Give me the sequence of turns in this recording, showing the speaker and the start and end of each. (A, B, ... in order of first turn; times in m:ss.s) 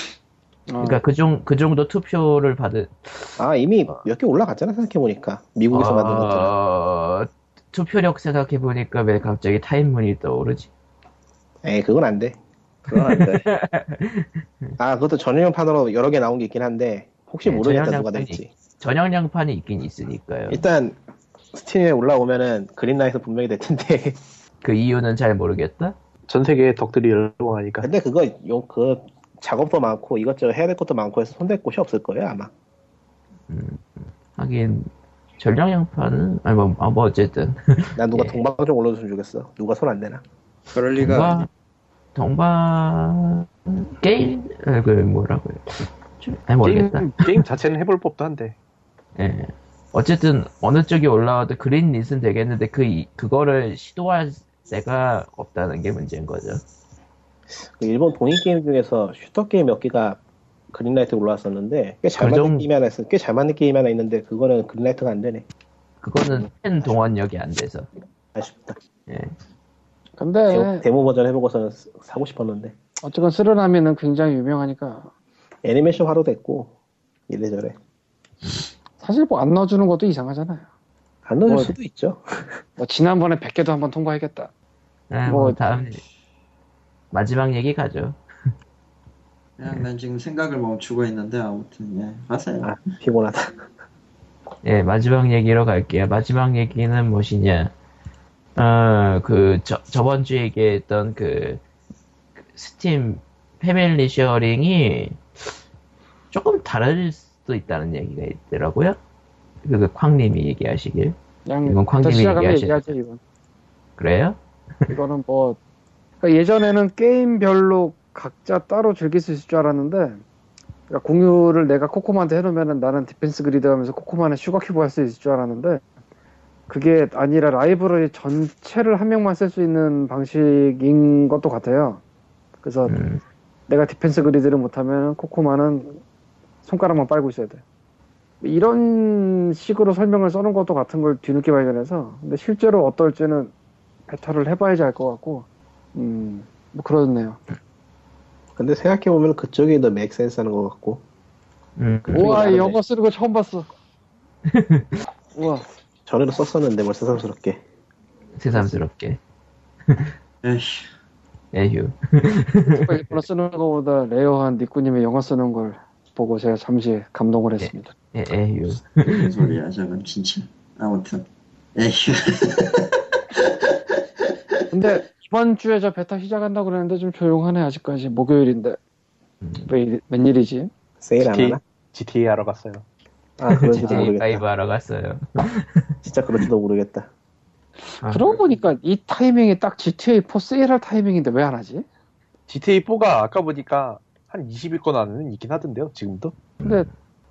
0:00.7-0:01.0 A
0:00.8-0:04.0 B
0:03.4-0:06.5 C
0:05.7-0:10.7 B
0:11.6-0:12.4 C
0:12.9-0:13.5 D
0:12.9-0:14.7 B
0:14.8-0:18.5 C
0:17.4-0:20.6 B
0:20.5-0:21.0 C
0:21.5-0:24.2 C
0:24.6-0:25.9 B
0:26.3-0:27.9 E
0:27.8-0:32.5 C
0:33.5-0:38.4 B
0:38.0-0:40.2 C
0:40.7-0:41.5 D
0:41.0-0:41.5 B
0:42.1-0:47.4 B
0:46.6-0:48.6 E
0:49.2-0:56.6 B
0:57.5-1:05.5 C
1:02.2-1:02.7 B
1:06.0-1:07.9 B
1:06.2-1:07.0 C
1:08.3-1:08.8 C
1:10.2-1:10.8 A
1:10.5-1:12.7 C
1:13.0-1:15.1 A
1:15.6-1:16.7 C
1:17.3-1:17.8 C
1:19.0-1:20.6 A
1:21.2-1:22.6 C
1:21.5-1:21.7 A
1:22.8-1:24.5 A
1:25.1-1:26.0 B
1:25.3-1:25.6 A
1:27.1-1:28.2 B
1:29.6-1:32.8 D
1:32.6-1:33.6 C
1:34.6-1:37.7 B
1:38.6-1:41.6 B
1:42.5-1:45.2 B
1:46.3-1:49.0 B
1:49.6-1:52.9 B
1:51.4-1:53.2 A
1:54.0-1:54.9 B
1:54.9-1:55.6 A
1:56.2-2:00.2 A
2:00.9-2:05.8 A
2:06.7-2:12.0 A
2:12.6-2:13.0 A
2:12.9-2:13.2 B
2:13.7-2:16.0 A
2:16.6-2:17.6 A
2:18.4-2:23.5 A
2:24.1-2:27.4 A
2:28.6-2:31.0 C
2:31.8-2:32.8 B
2:32.1-2:33.7 A
2:32.1-2:32.8 C
2:34.5-2:35.0 B
2:35.3-2:35.6 A
2:36.1-2:37.6 C
2:38.4-2:39.2 B
2:39.9-2:40.1 B
2:40.4-2:40.8 D
2:41.5-2:43.2 B
2:42.7-2:47.9 A
2:47.6-2:49.3 B
2:49.1-2:51.2 D
2:51.8-2:54.9 D
2:54.7-2:58.8 A
2:59.6-3:00.7 A
3:01.0-3:01.6 C
3:01.2-3:02.8 E
3:03.4-3:04.4 C
3:03.5-3:05.9 B
3:06.0-3:07.1 C
3:07.9-3:11.8 A
3:08.0-3:08.4 B
3:12.5-3:16.3 E
3:16.6-3:16.8 B